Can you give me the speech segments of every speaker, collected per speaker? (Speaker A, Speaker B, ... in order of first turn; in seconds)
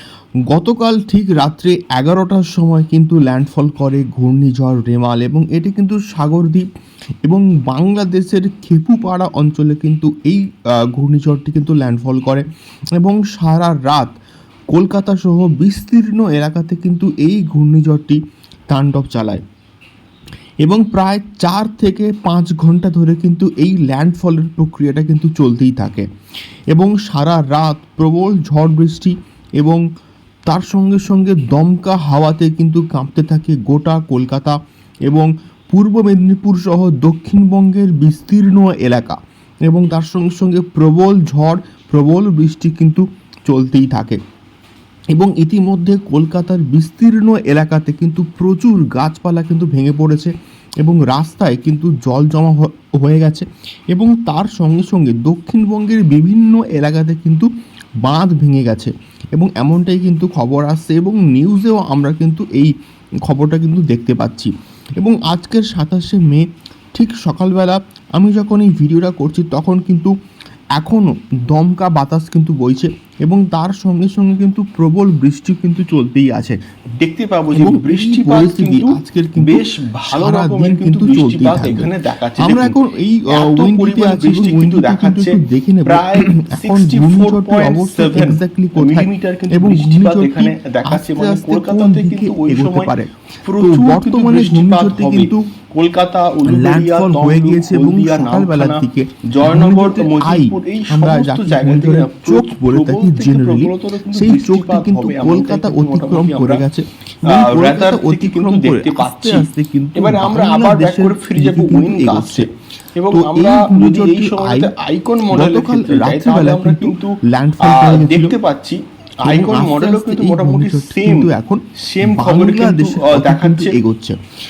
Speaker A: 0.5-6.7, 7.2-12.4, 13.0-14.1, 14.7-18.2, 18.7-19.4, 20.6-26.1, 26.7-29.8, 30.5-34.5, 35.1-44.2, 45.1-57.5, 58.0-62.7, 63.2-70.1, 70.8-76.6, 77.5-95.5, 96.4-112.5, 113.1-114.7, 115.3-118.3, 119.2-124.2
Speaker B: 77.0-82.8, 83.3-92.9, 93.4-106.6, 107.2-121.3, 121.8-123.8